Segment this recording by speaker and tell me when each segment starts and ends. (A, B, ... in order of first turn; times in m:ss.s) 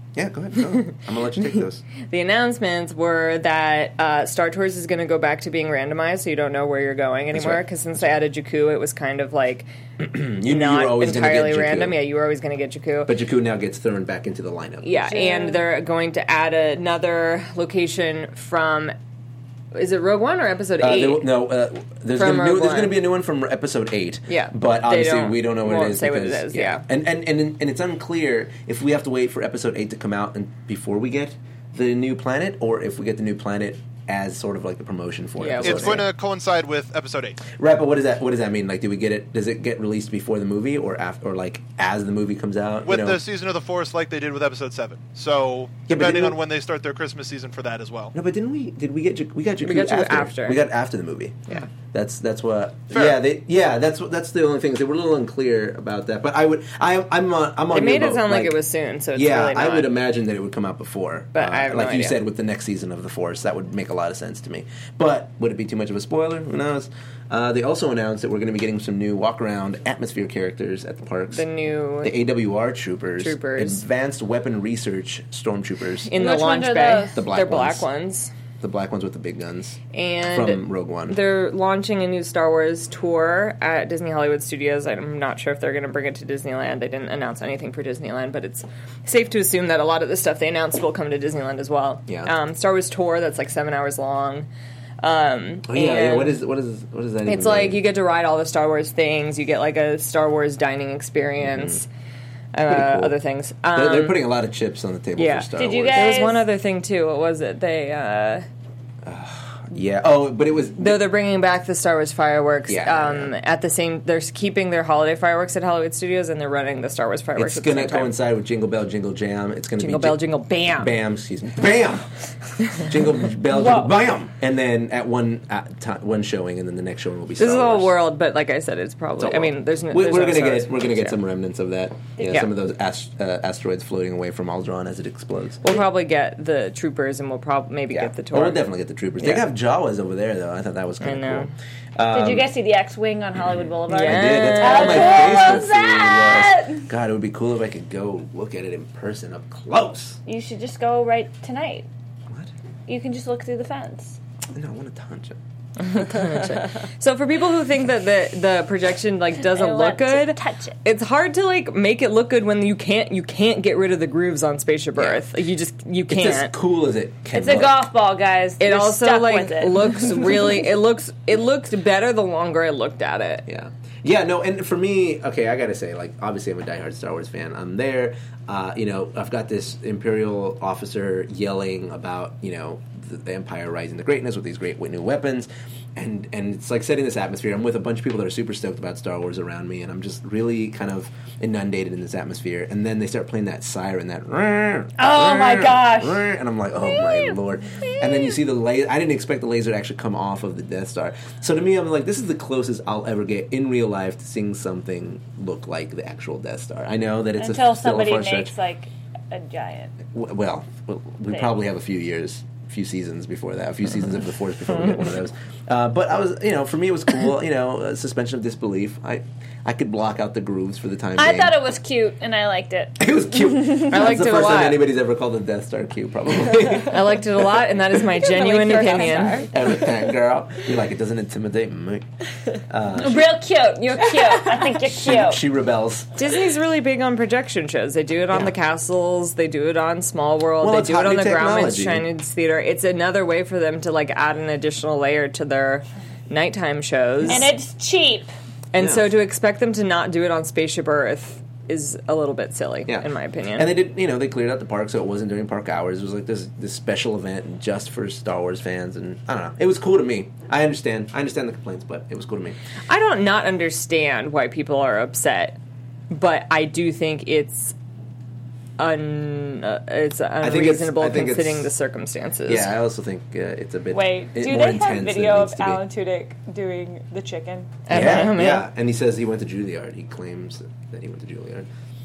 0:00.2-0:01.8 A
0:02.1-0:09.7 B
0:07.3-0:08.1 A
0:10.0-0:12.0 A
0:10.4-0:13.1 B
0:13.0-0:15.0 A
0:14.8-0:18.9 B
0:15.0-0:15.6 C
0:19.7-0:21.4 B
0:20.8-0:36.1 A
0:22.1-0:23.0 B
0:24.3-0:26.8 B
0:35.4-0:36.1 B
0:35.6-0:37.4 D
0:37.6-0:43.2 A
0:42.8-0:48.1 D
0:45.9-0:46.4 A
0:48.1-0:58.6 A
0:49.6-0:50.6 B
0:52.9-0:53.2 D
0:57.7-0:59.9 B
0:59.1-1:11.5 A
1:01.3-1:02.2 B
1:11.3-1:12.2 B
1:12.0-1:16.1 A
1:13.2-1:13.8 B
1:16.0-1:18.3 B
1:16.2-1:17.2 C
1:17.1-1:17.9 A
1:18.6-1:21.2 A
1:19.9-1:34.5 B
1:32.1-1:32.3 A
1:35.0-1:36.4 B
1:35.7-1:37.8 A
1:37.2-1:41.9 B
1:41.4-1:41.8 A
1:42.5-1:44.3 B
1:42.6-1:43.1 A
1:43.7-1:46.1 A
1:45.2-1:48.4 B
1:45.6-1:46.4 C
1:49.0-1:51.0 A
1:50.8-1:58.2 B
1:52.7-1:53.3 A
1:57.4-2:02.1 A
1:59.8-2:01.0 B
2:02.7-2:07.9 A
2:03.5-2:03.9 C
2:07.4-2:11.2 B
2:09.2-2:15.6 A
2:12.2-2:12.4 C
2:15.6-2:18.7 B
2:17.9-2:22.5 A
2:19.2-2:19.5 B
2:21.0-2:21.5 B
2:22.1-2:26.8 C
2:23.4-2:30.2 A
2:23.9-2:25.7 B
2:30.2-2:31.9 C
2:32.9-2:34.2 C
2:34.5-2:35.4 A
2:35.8-2:46.5 B
2:39.4-2:40.8 C
2:45.0-2:45.2 A
2:46.1-2:47.8 A
2:47.3-2:50.5 C
2:48.6-2:53.4 B
2:53.5-3:28.5 A
3:15.0-3:16.2 C
3:16.8-3:18.4 C
3:27.4-3:29.9 C
3:30.1-3:41.6 A
3:34.8-3:35.1 B
3:41.2-3:43.4 C
3:43.0-3:47.2 A
3:43.8-3:44.9 B
3:46.9-3:49.5 B
3:48.2-3:49.8 C
3:49.5-3:52.0 A
3:52.7-3:53.3 A
3:53.0-3:55.4 C
3:54.9-3:56.1 A
3:56.2-4:07.5 B
3:58.3-3:58.5 A
4:00.6-4:02.1 A
4:07.2-4:08.3 C
4:08.7-4:13.8 B
4:08.8-4:09.1 A
4:12.9-4:22.6 A
4:22.9-4:25.6 B
4:26.1-4:27.7 B
4:28.8-4:32.7 B
4:30.4-4:31.7 A
4:32.5-4:35.8 A
4:33.9-4:38.2 C
4:37.9-4:38.6 B
4:37.9-4:41.7 A